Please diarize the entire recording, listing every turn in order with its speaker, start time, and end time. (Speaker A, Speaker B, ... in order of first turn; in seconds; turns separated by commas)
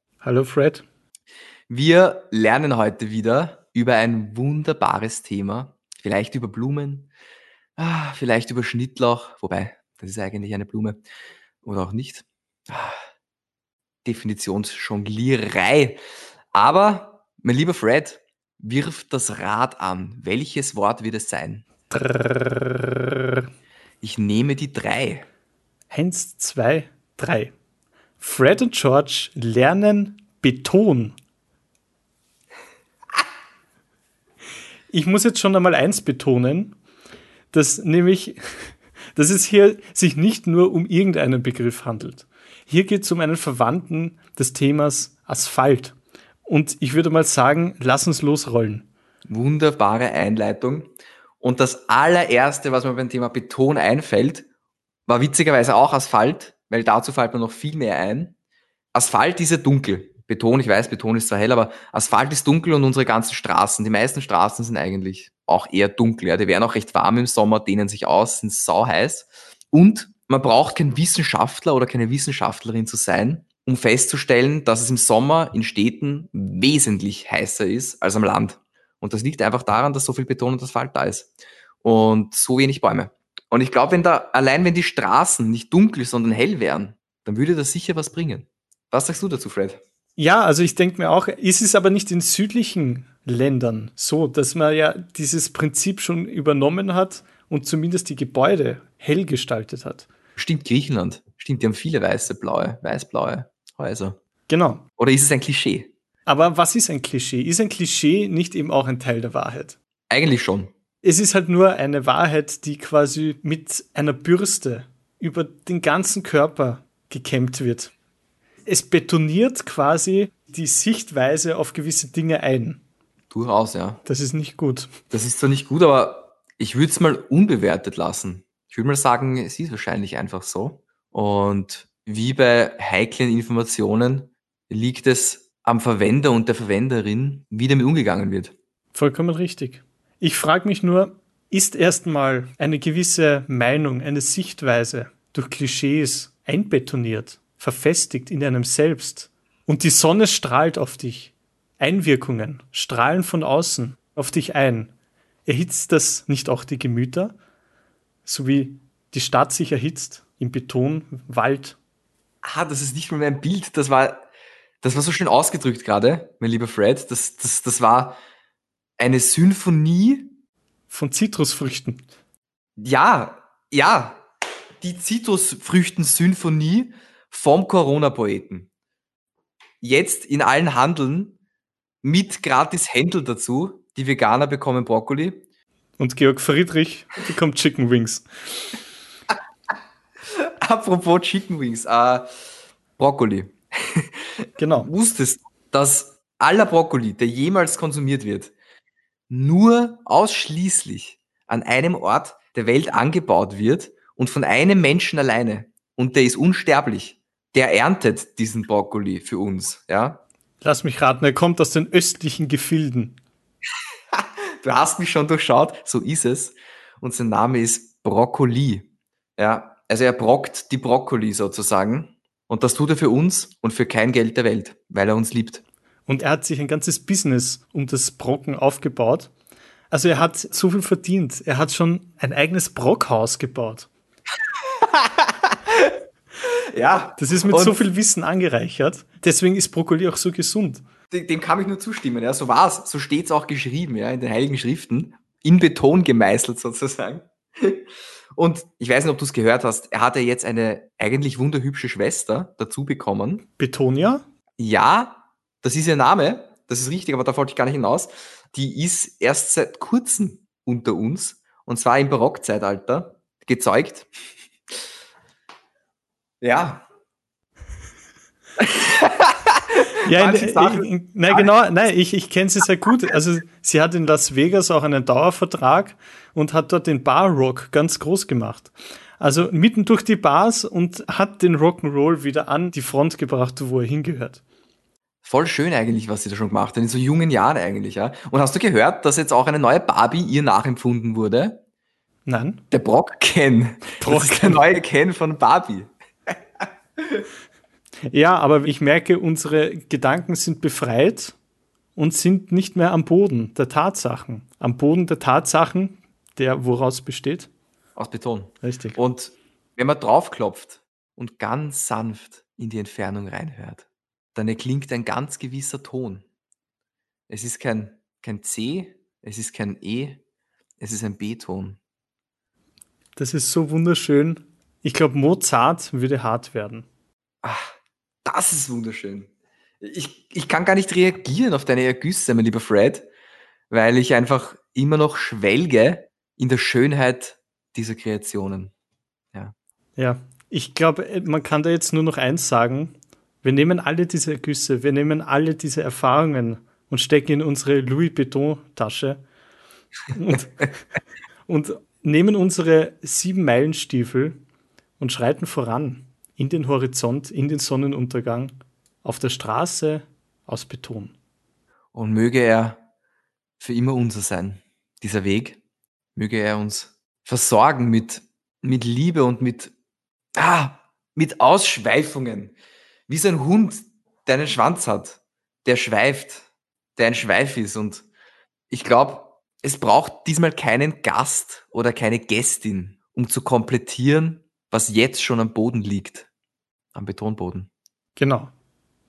Speaker A: 0.2-0.8, Speaker B: 1.7-7.1, Speaker B: 7.8-11.0, Speaker B: 11.6-13.0, Speaker B: 14.0-16.0, Speaker B: 16.5-21.6, Speaker A: 21.9-23.5, Speaker B: 24.0-25.2, Speaker A: 25.9-27.5, Speaker A: 28.2-31.1, Speaker A: 34.9-36.7, Speaker A: 37.5-45.9, Speaker A: 46.5-48.9, Speaker B: 49.3-54.5, Speaker B: 55.1-58.3, Speaker B: 58.9-81.3, Speaker B: 81.8-89.8, Speaker A: 90.2-100.1, Speaker B: 100.4-104.2, Speaker A: 104.5-104.8, Speaker B: 105.0-105.9, Speaker A: 106.2-109.7, Speaker B: 110.1-110.7, Speaker A: 111.0-117.9, Speaker A: 118.7-122.8, Speaker B: 123.3-124.0, Speaker A: 124.0-124.9, Speaker B: 125.1-138.5, Speaker A: 138.9-154.9, Speaker A: 155.4-157.3, Speaker A: 158.2-161.8, Speaker B: 162.4-164.2, Speaker B: 164.8-168.2, Speaker B: 169.0-170.3, Speaker A: 170.9-172.0, Speaker B: 172.8-174.2, Speaker B: 174.8-178.7, Speaker B: 179.8-181.3, Speaker B: 182.0-185.4, Speaker A: 186.0-188.8, Speaker B: 190.6-192.3, Speaker B: 193.0-198.5, Speaker A: 194.6-194.9, Speaker B: 199.3-210.2, Speaker A: 210.6-213.2, Speaker B: 214.1-218.8, Speaker B: 219.4-225.6, Speaker A: 226.1-229.3, Speaker A: 229.9-233.9, Speaker B: 234.8-235.9, Speaker B: 236.4-237.8, Speaker A: 237.2-240.8, Speaker B: 241.1-247.8, Speaker B: 248.3-253.4, Speaker A: 253.6-254.2, Speaker B: 254.6-264.1, Speaker B: 266.4-266.8, Speaker B: 268.6-271.5, Speaker A: 270.0-284.4, Speaker B: 285.2-291.6, Speaker A: 292.2-292.6, Speaker B: 292.7-295.9, Speaker A: 294.0-294.6, Speaker A: 298.1-301.4, Speaker A: 301.9-307.5, Speaker B: 307.9-316.2, Speaker A: 308.6-309.0, Speaker B: 317.3-320.2, Speaker B: 320.8-321.8, Speaker A: 323.1-326.9, Speaker B: 327.4-329.3, Speaker B: 329.8-333.1, Speaker B: 333.7-338.7, Speaker A: 340.0-349.2, Speaker A: 350.1-350.7, Speaker A: 351.5-354.4, Speaker A: 355.0-361.1, Speaker B: 361.9-362.8, Speaker B: 363.6-365.6, Speaker B: 366.1-369.7, Speaker B: 370.4-372.5, Speaker B: 373.1-376.4, Speaker B: 377.0-378.1, Speaker B: 378.7-386.3, Speaker B: 386.9-387.7, Speaker A: 388.2-388.5